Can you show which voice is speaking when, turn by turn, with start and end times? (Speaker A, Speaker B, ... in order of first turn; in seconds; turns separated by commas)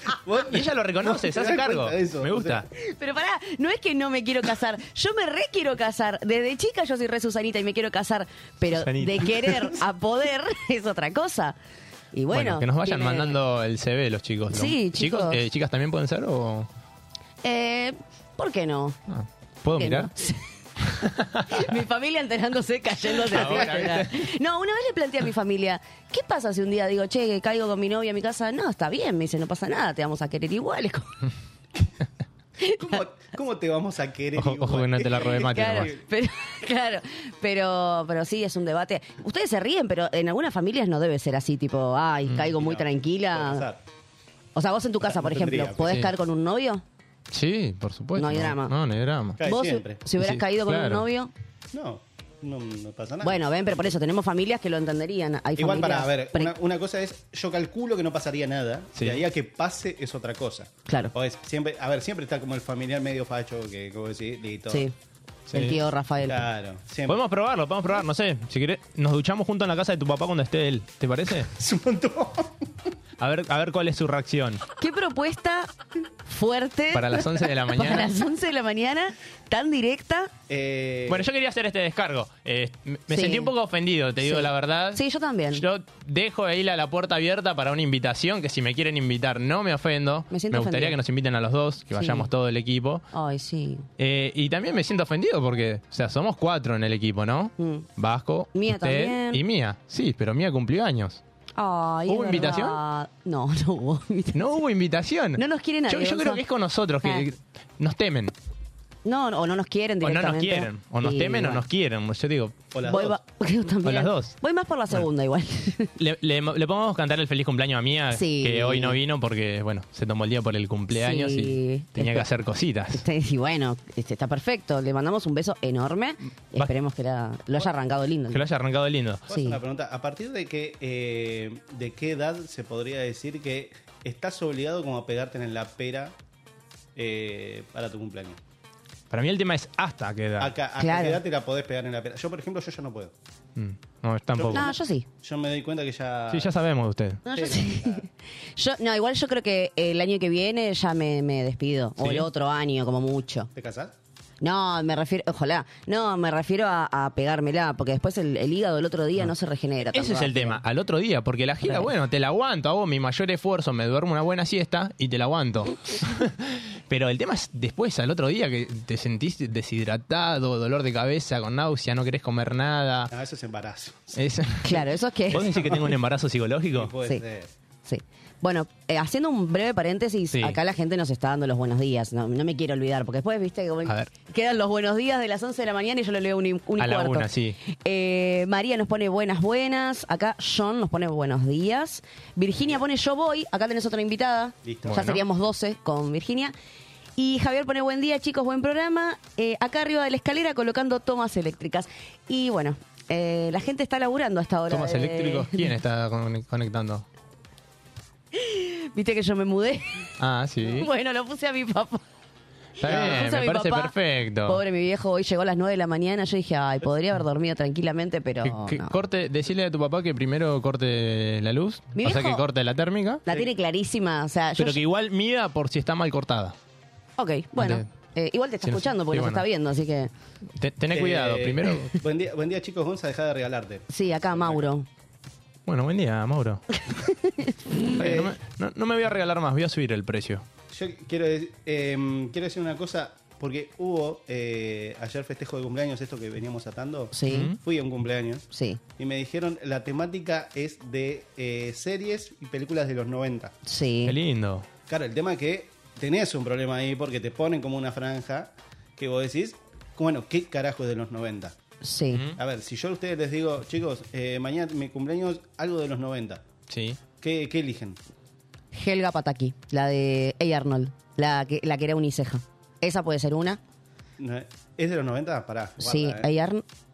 Speaker A: 0.2-2.6, Speaker B: 0.5-2.7, Speaker C: 2.8-11.6, Speaker B: 8.7-9.5, Speaker C: 12.1-13.3, Speaker B: 12.3-16.7, Speaker C: 14.5-15.4, Speaker C: 17.4-19.0, Speaker B: 19.1-20.1, Speaker C: 19.7-21.0, Speaker B: 21.2-21.6, Speaker C: 21.5-31.1, Speaker B: 23.2-24.3, Speaker A: 23.4-23.9, Speaker C: 32.6-33.0, Speaker A: 32.8-36.0, Speaker B: 34.3-35.9, Speaker C: 35.4-43.6, Speaker B: 42.3-42.5, Speaker A: 42.5-43.8, Speaker C: 44.5-46.8, Speaker A: 45.0-46.1, Speaker B: 45.8-46.1, Speaker B: 47.3-49.4, Speaker C: 48.2-48.7, Speaker A: 49.4-50.0, Speaker C: 49.4-51.3, Speaker B: 50.2-51.1, Speaker A: 51.7-53.9, Speaker C: 53.2-56.5, Speaker A: 55.6-64.9, Speaker B: 59.0-59.2, Speaker C: 60.9-61.1, Speaker B: 65.5-65.8, Speaker C: 65.5-66.5, Speaker A: 66.2-67.2, Speaker B: 67.1-71.5, Speaker A: 71.4-72.7, Speaker B: 73.2-74.6, Speaker C: 74.8-75.7, Speaker C: 76.2-80.3, Speaker B: 76.9-78.1, Speaker A: 80.5-81.3, Speaker B: 81.1-93.1, Speaker C: 83.1-83.5, Speaker C: 84.2-85.6, Speaker C: 90.3-91.0, Speaker C: 92.0-92.3, Speaker C: 93.1-93.8, Speaker B: 94.0-101.2, Speaker C: 97.6-97.9, Speaker C: 98.5-99.4, Speaker C: 101.6-104.4, Speaker B: 102.1-102.8, Speaker B: 104.3-108.3, Speaker C: 105.4-106.4, Speaker C: 109.0-111.6, Speaker B: 110.0-112.6, Speaker A: 112.7-113.2, Speaker C: 112.8-115.9, Speaker B: 113.8-114.3, Speaker B: 116.0-123.0, Speaker C: 118.1-119.0, Speaker C: 120.9-122.3, Speaker C: 122.9-128.4, Speaker B: 128.3-129.2, Speaker A: 129.3-136.1, Speaker C: 129.3-129.6, Speaker A: 136.9-138.4, Speaker B: 139.1-140.5, Speaker A: 140.4-143.1, Speaker C: 140.8-141.2, Speaker B: 143.6-144.7, Speaker A: 144.3-146.5, Speaker C: 144.5-145.1, Speaker B: 146.3-147.2, Speaker C: 147.2-153.5, Speaker A: 147.3-148.0, Speaker B: 152.0-152.3, Speaker A: 153.5-153.9, Speaker C: 154.4-160.6, Speaker B: 159.9-173.1, Speaker A: 173.1-174.2, Speaker B: 174.2-176.9, Speaker C: 174.6-175.8, Speaker A: 175.4-175.9, Speaker A: 176.7-177.5, Speaker C: 177.8-196.5, Speaker B: 180.3-180.6, Speaker B: 186.8-187.6, Speaker A: 194.6-195.0, Speaker B: 194.8-195.2, Speaker C: 197.2-205.7, Speaker B: 204.7-207.0, Speaker C: 208.3-210.1, Speaker B: 210.2-210.9, Speaker C: 210.6-212.0, Speaker B: 212.8-214.6, Speaker C: 212.8-213.9, Speaker A: 212.8-213.3, Speaker C: 214.5-218.9, Speaker B: 218.4-223.2, Speaker C: 221.9-222.4, Speaker C: 223.2-224.8, Speaker B: 224.6-226.6, Speaker C: 227.2-230.1, Speaker B: 227.6-227.8, Speaker B: 228.6-229.4, Speaker B: 230.6-232.0, Speaker A: 230.9-234.7, Speaker C: 233.9-234.9, Speaker B: 235.7-236.6, Speaker C: 237.0-237.8, Speaker B: 237.8-240.4, Speaker A: 238.0-238.3, Speaker A: 240.7-248.4, Speaker C: 247.1-247.5, Speaker B: 247.3-247.6, Speaker C: 248.5-248.8, Speaker A: 249.0-253.5, Speaker C: 253.7-254.2, Speaker B: 254.0-254.7, Speaker A: 254.9-261.6, Speaker C: 261.8-262.2, Speaker B: 262.1-262.4, Speaker A: 262.3-266.4, Speaker B: 266.7-267.0, Speaker A: 267.2-268.0, Speaker C: 268.7-273.6, Speaker A: 274.2-276.3, Speaker C: 275.8-276.6